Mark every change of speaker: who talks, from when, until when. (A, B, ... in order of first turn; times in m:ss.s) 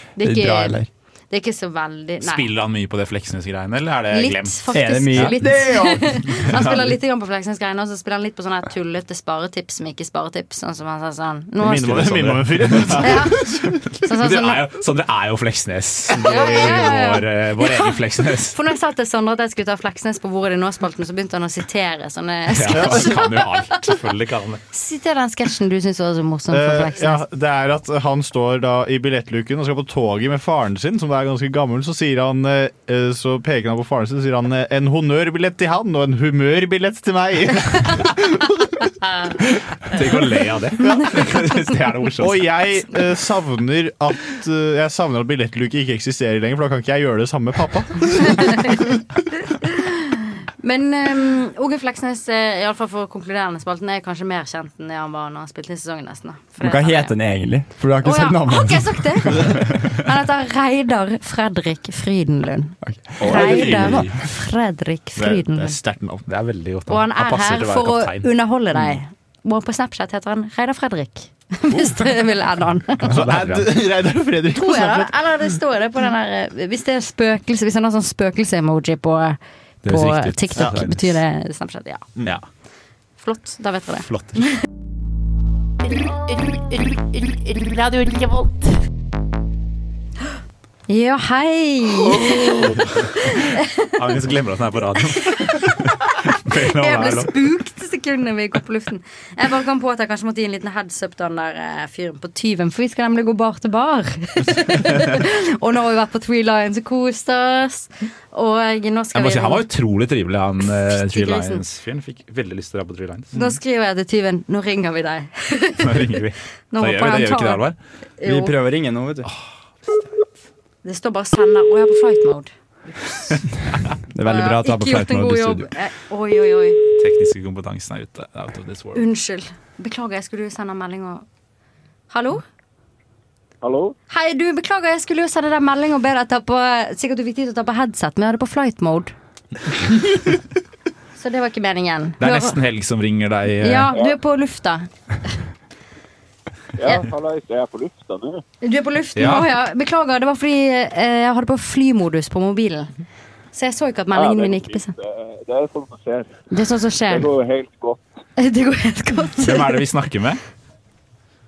0:00.2-0:02.5 A
0:00.2-0:00.9 B
0:02.2-0:05.4 C
0:04.1-0:12.1 A
0:04.7-0:06.2 B
0:06.4-0:07.0 C
0:11.6-0:13.6 D
0:11.8-0:13.2 C
0:13.0-0:14.7 A
0:13.9-0:18.6 C
0:16.2-0:23.3 A
0:22.5-0:24.6 C
0:24.7-0:27.2 A
0:26.5-0:38.4 D
0:39.0-0:39.3 A
0:39.9-0:42.5 C
0:42.2-0:48.9 D
0:49.6-0:57.2 A
0:56.6-0:59.5 B
0:58.0-1:05.8 A
1:02.8-1:03.3 B
1:03.2-1:04.1 C
1:03.2-1:04.1 D
1:05.2-1:06.2 D
1:06.3-1:08.3 C
1:06.9-1:13.1 A
1:13.1-1:15.1 D
1:13.1-1:13.7 C
1:14.5-1:22.1 A
1:19.8-1:21.2 C
1:23.2-1:24.1 A
1:24.0-1:24.4 C
1:30.9-1:33.6 A
1:33.9-1:37.4 C
1:35.4-1:49.6 A
1:49.1-1:53.4 C
1:50.9-1:51.6 A
1:53.3-1:56.2 A
1:55.8-1:57.8 C
1:56.7-1:57.6 A
1:58.2-1:58.6 A
1:58.2-1:59.3 B
2:00.8-2:03.4 A
2:04.1-2:05.7 B
2:04.2-2:06.8 A
2:07.0-2:09.0 C
2:09.0-2:11.2 A
2:12.1-2:12.4 A
2:13.6-2:14.0 E
2:14.1-2:19.1 A
2:21.2-2:22.6 A
2:22.2-2:23.9 C
2:23.6-2:24.9 A
2:23.9-2:24.2 E
2:26.8-2:28.4 E
2:28.6-2:32.9 A
2:29.2-2:29.5 C
2:33.5-2:34.9 A
2:34.1-2:36.4 E
2:36.5-2:37.3 A
2:37.1-2:38.2 E
2:38.4-2:39.8 A
2:39.4-2:40.4 C